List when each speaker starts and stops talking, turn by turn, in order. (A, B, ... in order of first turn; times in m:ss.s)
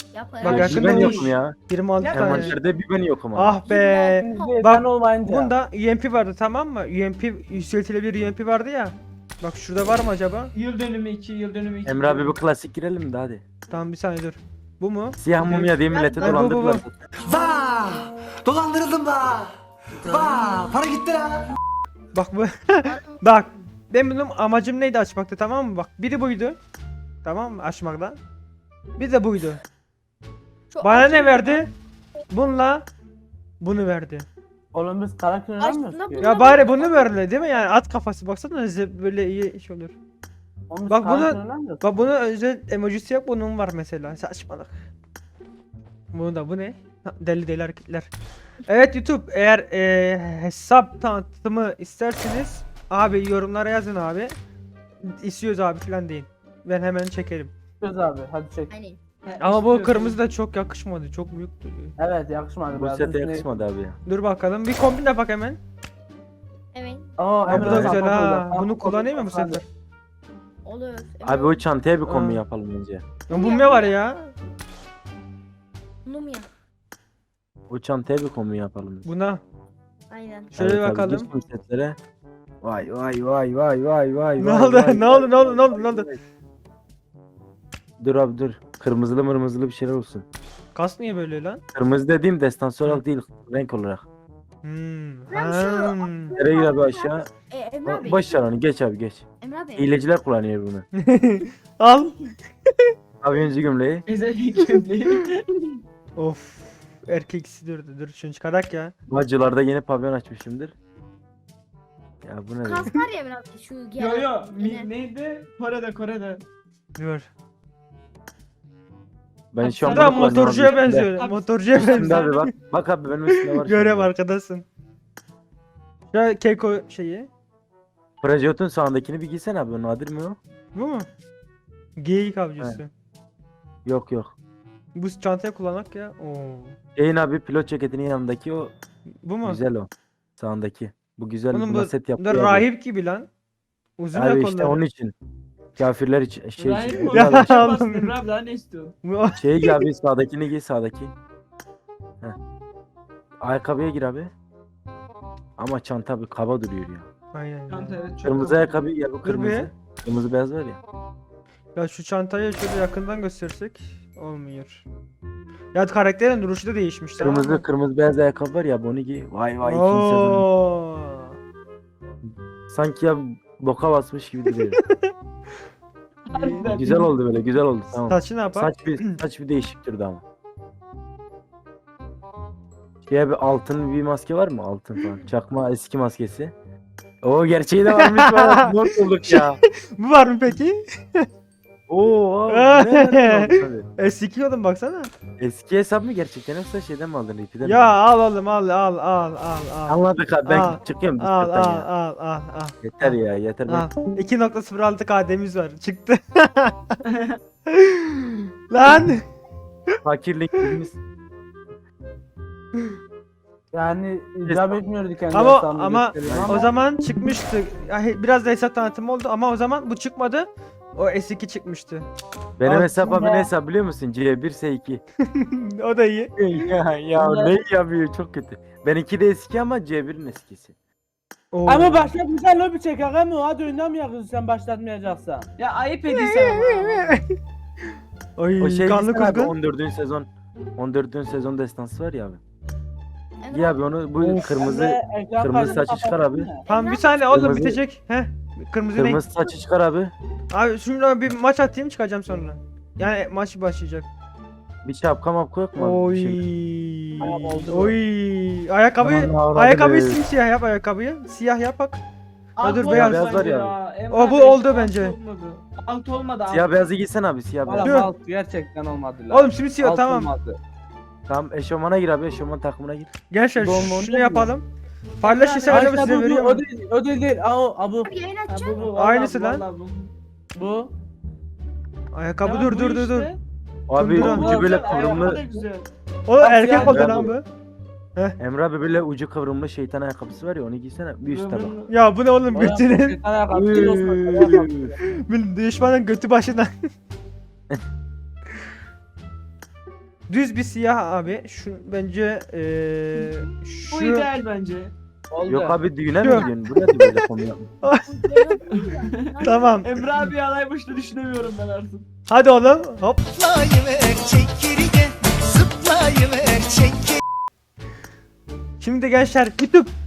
0:00.1-0:01.2 A
0:00.4-0:02.6 B
0:00.4-0:01.6 C
0:02.0-0:02.5 D
0:02.1-0:03.6 C
0:03.3-0:10.5 B
0:03.6-0:04.6 A
0:04.2-0:05.5 E
0:10.5-0:12.3 D
0:11.8-0:13.4 C
0:13.7-0:16.8 B
0:15.2-0:17.0 C
0:15.9-0:16.5 D
0:17.3-0:19.4 F
0:20.1-0:21.4 F
0:22.1-0:26.6 B
0:22.8-0:23.2 A
0:27.2-0:28.2 B
0:29.0-0:29.6 B
0:30.7-0:31.6 A
0:30.8-0:31.7 B
0:32.3-0:32.9 B
0:33.6-0:34.3 B
0:34.7-0:36.3 E
0:35.6-0:37.2 A
0:36.2-0:40.0 B
0:40.7-0:41.8 E
0:40.9-0:44.8 B
0:46.1-0:48.1 B
0:48.7-0:54.3 B
0:55.0-0:57.5 B
0:57.8-0:58.7 E
0:58.7-0:59.0 A
0:59.2-1:00.2 D
0:59.4-1:01.9 B
1:02.0-1:03.6 E
1:02.7-1:04.0 C
1:04.0-1:05.6 B
1:06.7-1:07.1 A
1:07.2-1:09.6 E
1:07.5-1:08.0 C
1:07.5-1:09.6 B
1:10.6-1:11.6 A
1:11.2-1:13.0 C
1:12.1-1:12.4 B
1:13.3-1:14.3 B
1:13.3-1:14.0 A
1:16.0-1:16.5 A
1:17.7-1:19.1 C
1:19.0-1:19.4 B
1:20.1-1:20.5 A
1:20.5-1:21.3 B
1:20.5-1:22.0 C
1:22.6-1:26.2 C
1:24.4-1:26.1 B
1:28.0-1:30.2 C
1:30.7-1:31.6 B
1:31.7-1:34.0 C
1:34.6-1:36.4 B
1:35.3-1:38.4 A
1:36.4-1:37.3 C
1:37.8-1:39.2 C
1:39.4-1:40.0 A
1:39.8-1:40.8 C
1:41.0-1:42.3 B
1:43.2-1:44.0 C
1:44.1-1:45.8 D
1:46.2-1:48.9 B
1:49.1-1:50.7 C
1:52.2-1:52.9 C
1:52.6-1:54.9 A
1:54.0-1:56.4 D
1:57.0-1:57.3 B
1:59.5-2:01.1 C
1:59.6-2:02.4 D
1:59.8-2:02.5 B
2:01.7-2:04.1 C
2:03.3-2:04.6 B
2:06.1-2:07.3 B
2:08.2-2:10.4 C
2:10.7-2:11.1 B
2:12.0-2:12.9 B
2:13.8-2:14.3 C
2:14.9-2:16.8 B
2:17.0-2:18.7 C
2:19.2-2:19.6 B
2:19.4-2:22.6 C
2:21.5-2:23.3 B
2:24.0-2:24.8 B
2:24.1-2:25.1 C
2:25.8-2:27.6 C
2:26.6-2:28.9 D
2:27.1-2:28.1 B
2:29.0-2:29.8 B
2:29.4-2:31.1 C
2:33.4-2:34.3 C
2:35.6-2:37.1 C
2:37.3-2:38.0 B
2:37.7-2:38.8 D
2:38.2-2:40.8 C
2:39.2-2:39.7 B
2:41.7-2:44.8 B
2:45.7-2:47.6 B
2:47.2-2:50.5 C
2:49.6-2:51.4 B
2:52.2-2:54.8 C
2:54.5-2:55.1 B
2:56.3-2:57.1 D
2:56.3-2:56.7 B
2:56.6-3:00.2 C
2:58.1-2:59.2 B
3:03.0-3:06.5 C
3:07.2-3:09.6 C
3:07.9-3:08.7 B
3:09.3-3:11.3 B
3:11.9-3:13.9 C
3:12.5-3:15.1 B
3:15.4-3:18.0 C
3:17.6-3:27.0 B
3:19.9-3:21.9 C
3:22.8-3:23.9 C
3:27.0-3:27.4 D
3:27.7-3:29.2 B
3:30.0-3:31.0 C
3:33.7-3:36.7 E
3:34.4-3:34.8 C
3:35.3-3:42.1 B
3:36.2-3:36.7 C
3:42.6-3:45.0 C
3:42.7-3:43.5 E
3:45.3-3:46.3 B
3:46.4-3:50.7 C
3:47.1-3:47.5 E
3:51.5-3:52.1 B
3:51.6-3:55.5 E
3:55.6-3:57.2 D
3:56.1-3:57.2 B
3:58.4-3:59.5 B
3:58.6-4:02.4 C
4:03.4-4:03.8 A
4:03.5-4:06.5 C
4:04.2-4:04.6 B
4:04.6-4:06.6 E
4:06.6-4:07.3 A
4:06.7-4:09.2 B
4:07.3-4:07.8 C
4:09.0-4:10.1 C
4:10.5-4:14.1 B
4:14.8-4:16.4 C
4:15.8-4:22.0 B
4:17.2-4:18.0 E
4:17.2-4:17.7 C
4:19.0-4:20.2 C
4:22.6-4:26.8 D
4:22.6-4:23.4 B
4:22.6-4:23.7 C
4:24.1-4:25.2 B
4:26.5-4:28.0 C
4:27.6-4:30.6 E
4:27.8-4:28.1 B
4:29.3-4:30.3 B
4:31.3-4:33.1 C
4:33.3-4:34.7 B
4:33.6-4:34.5 E
4:35.2-4:36.2 D
4:35.2-4:36.6 B
4:35.6-4:38.1 E
4:38.0-4:38.9 A
4:38.5-4:40.1 D
4:38.9-4:39.6 B
4:40.5-4:40.9 E
4:42.1-4:43.3 B
4:42.4-4:43.4 D
4:43.9-4:45.4 C
4:44.0-4:44.7 B
4:44.2-4:45.6 E
4:44.2-4:45.9 D
4:46.3-4:47.4 B
4:46.4-4:47.3 E
4:46.8-4:47.3 C
4:48.4-4:51.7 C
4:51.3-4:51.9 D
4:51.9-4:53.2 B
4:52.5-4:55.0 E
4:53.5-4:54.9 C
4:55.0-4:56.7 B
5:00.3-5:04.3 B
5:03.9-5:04.9 D
5:05.3-5:05.8 E
5:05.4-5:07.7 C
5:06.2-5:07.2 B
5:07.8-5:08.6 B
5:08.0-5:09.8 A
5:08.7-5:12.0 D
5:09.4-5:09.9 B
5:12.3-5:15.0 B
5:15.6-5:16.9 B
5:18.8-5:19.9 B